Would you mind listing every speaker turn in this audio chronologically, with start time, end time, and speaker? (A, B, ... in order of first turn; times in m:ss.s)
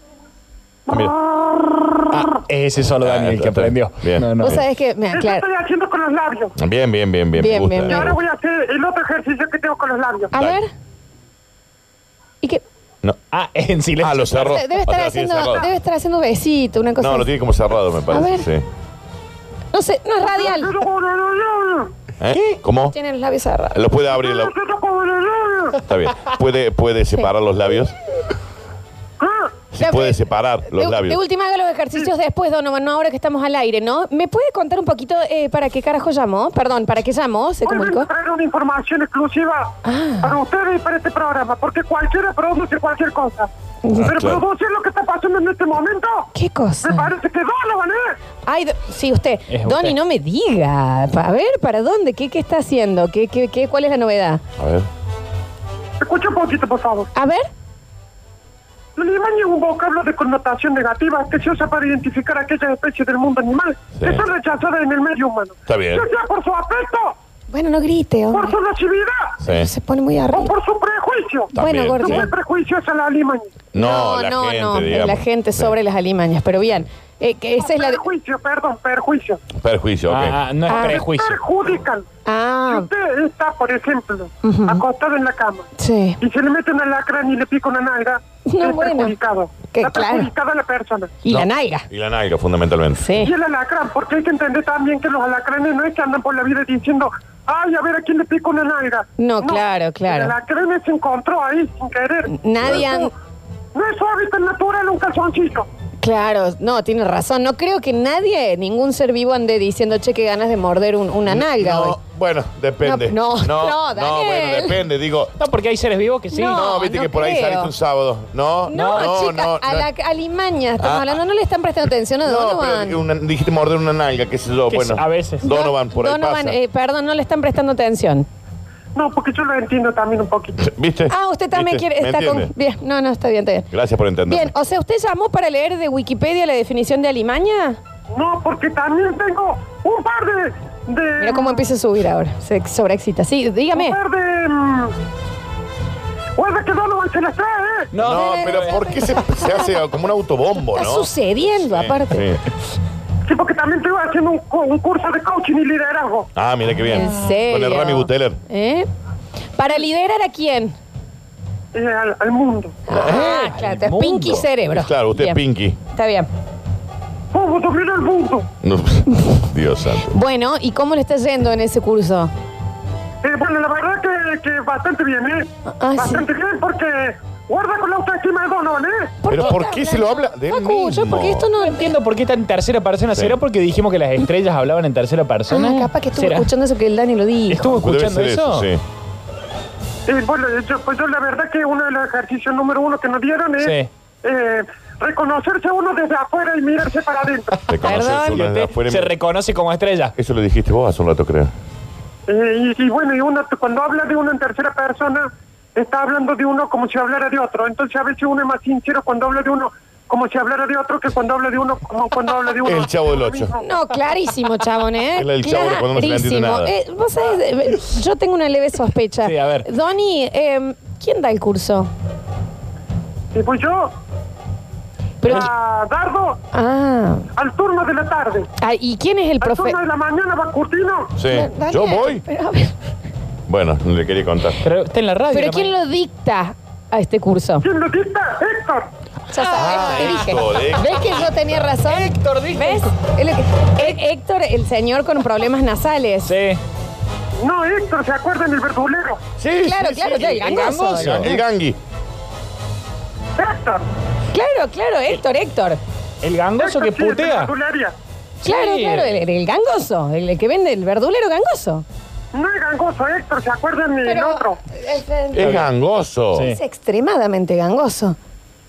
0:00.9-0:02.0 A
0:00.9-0:01.2 B
0:02.1-0:04.6 C
0:03.0-0:04.6 B
0:04.4-0:05.4 D
0:05.1-0:06.5 A
0:06.6-0:08.2 B
0:07.4-0:08.1 D
0:07.8-0:10.3 A
0:10.3-0:10.7 D
0:10.3-0:10.6 B
0:13.3-0:14.5 C
0:14.0-0:15.7 B
0:14.3-0:17.3 D
0:17.0-0:18.6 B
0:18.1-0:18.5 D
0:19.7-0:20.8 D
0:20.2-0:21.9 A
0:22.2-0:22.9 B
0:22.8-0:23.8 D
0:23.7-0:24.5 B
0:24.1-0:25.8 A
0:25.8-0:28.0 B
0:29.2-0:29.6 A
0:29.7-0:31.2 B
0:29.8-0:38.1 D
0:37.6-0:43.5 A
0:39.8-0:40.4 D
0:43.8-0:44.1 D
0:43.9-0:44.4 B
0:44.0-0:46.3 A
0:46.3-0:47.1 D
0:46.8-0:48.2 A
0:48.4-0:54.4 D
0:49.5-0:49.9 C
0:54.6-0:54.9 B
0:56.0-0:57.1 A
0:57.1-0:57.5 D
0:59.0-1:07.2 A
1:04.0-1:04.2 B
1:05.7-1:06.0 B
1:07.5-1:08.6 D
1:08.3-1:09.4 A
1:09.4-1:09.7 B
1:09.5-1:10.5 D
1:10.3-1:13.6 A
1:11.5-1:12.3 D
1:11.5-1:12.3 B
1:13.7-1:15.8 B
1:13.7-1:18.0 D
1:17.6-1:19.4 A
1:19.5-1:20.4 B
1:20.1-1:21.4 C
1:20.7-1:21.0 D
1:20.7-1:22.1 A
1:22.2-1:22.9 D
1:22.7-1:25.7 A
1:24.4-1:24.8 D
1:25.8-1:26.2 D
1:26.2-1:31.2 A
1:28.4-1:29.1 D
1:29.7-1:30.3 D
1:31.2-1:31.9 D
1:31.3-1:33.3 B
1:33.0-1:33.3 D
1:33.2-1:43.1 A
1:39.2-1:40.3 D
1:42.3-1:43.1 D
1:42.6-1:42.9 B
1:43.7-1:45.7 A
1:46.0-1:52.0 D
1:51.2-1:55.3 B
1:52.8-1:54.8 D
1:55.4-1:56.6 C
1:56.3-1:57.7 D
1:56.5-1:59.9 B
1:58.6-2:03.0 D
1:58.7-1:59.2 C
2:00.8-2:01.1 B
2:02.2-2:06.6 B
2:04.7-2:05.5 C
2:05.4-2:08.3 D
2:08.9-2:10.6 A
2:10.6-2:12.5 B
2:11.1-2:13.7 D
2:13.7-2:14.5 B
2:14.2-2:17.8 D
2:18.1-2:21.7 A
2:21.2-2:24.0 D
2:23.7-2:25.0 A
2:26.4-2:27.9 A
2:27.9-2:28.8 C
2:28.0-2:31.1 B
2:28.1-2:29.9 D
2:30.7-2:32.3 D
2:31.7-2:32.4 B
2:33.2-2:36.3 A
2:36.3-2:38.4 B
2:36.9-2:38.9 D
2:39.6-2:40.7 D
2:41.7-2:42.8 A
2:42.9-2:46.3 D
2:42.9-2:44.4 C
2:42.9-2:43.3 B
2:44.7-2:45.8 B
2:47.3-2:48.5 A
2:48.6-2:50.1 B
2:50.0-2:52.3 D
2:53.2-2:59.2 A
2:55.7-2:56.2 D
2:59.2-3:02.0 D
2:59.3-3:01.5 B
3:01.6-3:06.5 C
3:03.1-3:03.4 B
3:05.5-3:07.8 D
3:07.5-3:08.7 C
3:07.7-3:08.8 B
3:10.0-3:17.7 A
3:13.6-3:13.9 C
3:17.6-3:20.1 C
3:17.7-3:19.1 B
3:20.2-3:21.5 B
3:22.3-3:33.6 A
3:32.6-3:33.5 B
3:33.6-3:41.9 D
3:35.1-3:36.7 B
3:39.2-3:39.7 C
3:43.3-3:43.9 A
3:45.2-3:45.5 D
3:45.2-3:46.4 A
3:46.5-3:47.3 D
3:47.4-3:48.5 A
3:48.6-3:49.8 D
3:49.4-3:51.1 A
3:51.2-3:52.2 B
3:51.3-3:52.7 D
3:53.5-3:54.6 B
3:54.6-3:55.7 C
3:55.3-3:57.6 D
3:57.6-3:58.9 A
3:59.3-4:00.4 C
3:59.3-4:06.3 D
3:59.6-4:01.7 B
4:01.0-4:02.9 C
4:06.2-4:06.6 C
4:07.4-4:09.2 A
4:09.4-4:11.8 B
4:09.6-4:11.4 D
4:10.4-4:11.3 C
4:13.4-4:13.9 A
4:14.3-4:15.8 D
4:16.2-4:17.5 C
4:16.6-4:17.9 A
4:18.4-4:19.2 C
4:18.4-4:21.8 D
4:22.3-4:24.6 A
4:24.0-4:25.6 D
4:25.3-4:26.5 B
4:25.4-4:25.6 C
4:26.3-4:26.6 C
4:26.4-4:28.2 D